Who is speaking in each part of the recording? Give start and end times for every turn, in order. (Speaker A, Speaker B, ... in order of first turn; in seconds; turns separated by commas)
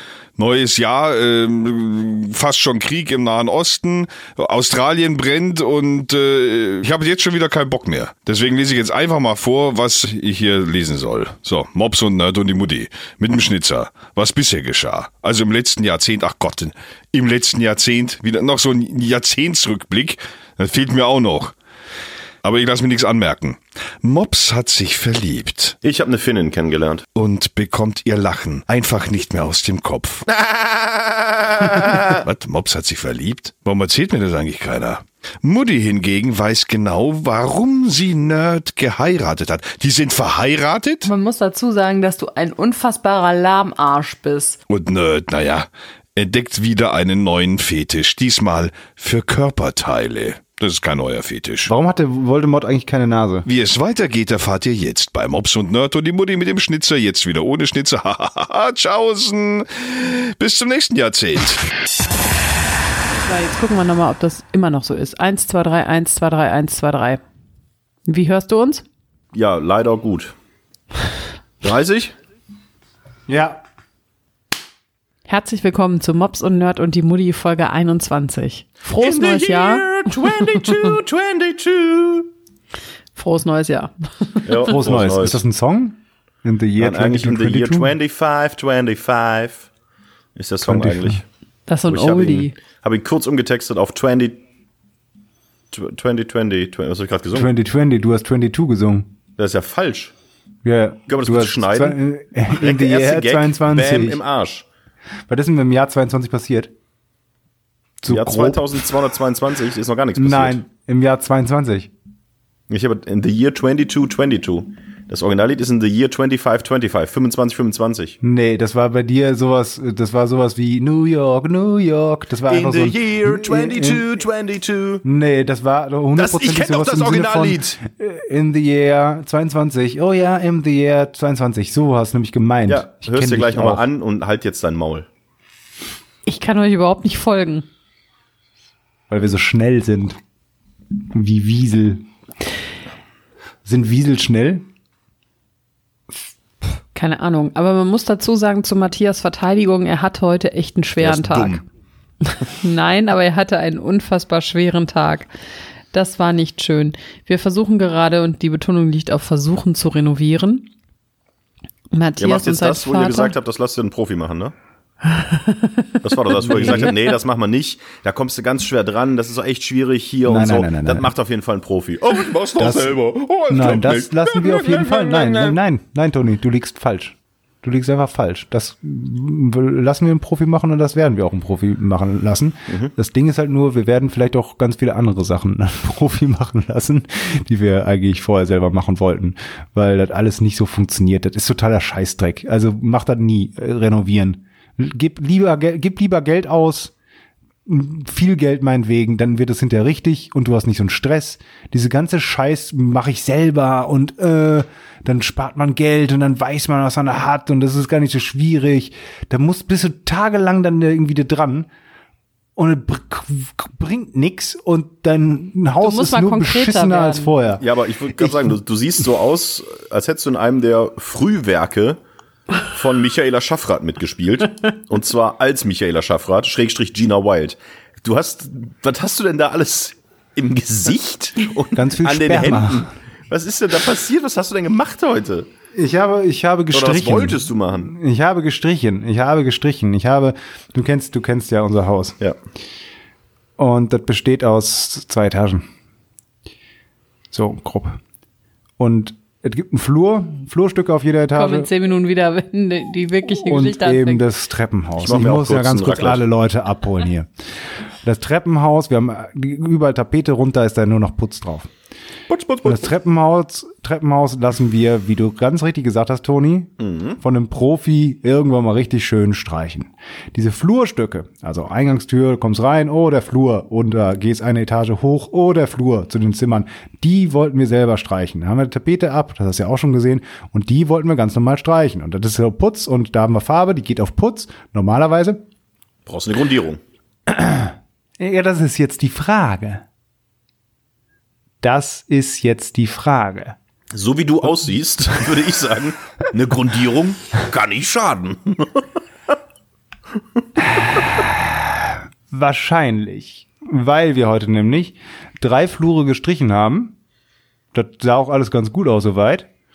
Speaker A: 0.4-21.5, Speaker A: 22.4-25.8, Speaker B: 25.8-27.1, Speaker A: 27.2-30.2, Speaker B: 30.3-32.2, Speaker A: 31.6-41.1, Speaker C: 41.0-44.6, Speaker A: 44.7-51.7, Speaker D: 51.7-53.5, Speaker A: 53.5-61.6, Speaker C: 63.2-67.2, Speaker C: 68.1-68.8, Speaker B: 69.3-70.3, Speaker B: 71.6-72.1, Speaker D: 73.3-73.6, Speaker C: 75.3-80.5, Speaker B: 79.0-82.3, Speaker C: 83.2-84.7, Speaker B: 84.5-85.4, Speaker D: 84.7-87.9, Speaker B: 86.8-89.7, Speaker B: 90.4-91.2, Speaker D: 90.6-91.2, Speaker C: 91.7-92.6, Speaker B: 91.9-94.4, Speaker B: 95.7-97.5, Speaker D: 97.3-99.1, Speaker B: 99.4-100.1, Speaker D: 100.7-104.2, Speaker B: 101.1-102.0, Speaker B: 102.5-104.7, Speaker D: 105.3-106.7, Speaker D: 108.0-108.8, Speaker B: 108.1-110.6, Speaker D: 110.2-111.9, Speaker B: 112.7-118.2, Speaker D: 118.2-124.0, Speaker B: 122.5-125.0, Speaker D: 125.0-133.8, Speaker B: 126.2-127.8, Speaker B: 132.7-135.1, Speaker C: 136.3-137.7, Speaker D: 139.1-140.2, Speaker D: 141.1-142.0, Speaker D: 143.7-144.7, Speaker C: 146.9-151.6, Speaker B: 151.0-151.6, Speaker C: 152.3-155.3, Speaker C: 155.9-160.7, Speaker C: 161.9-163.3, Speaker B: 162.2-164.5, Speaker C: 165.2-166.9, Speaker B: 166.0-175.6, Speaker D: 166.6-166.9, Speaker D: 170.3-171.1, Speaker D: 172.6-173.0, Speaker D: 173.5-196.9, Speaker B: 182.7-182.9, Speaker D: 197.7-211.7, Speaker D: 212.6-217.6, Speaker C: 215.8-217.3, Speaker B: 217.6-222.0, Speaker B: 222.6-235.5, Speaker D: 231.7-232.9, Speaker D: 235.8-242.2, Speaker B: 236.7-237.9, Speaker D: 243.6-245.7, Speaker D: 247.3-248.0, Speaker D: 248.8-251.7, Speaker C: 251.3-254.2, Speaker D: 253.4-257.3, Speaker B: 255.0-256.2, Speaker D: 258.0-261.7, Speaker B: 262.3-262.9, Speaker D: 262.6-285.4, Speaker B: 266.8-267.2, Speaker B: 286.1-286.8, Speaker D: 287.3-289.8, Speaker D: 291.6-293.6, Speaker B: 293.9-298.9, Speaker D: 300.7-306.9, Speaker D: 307.7-309.5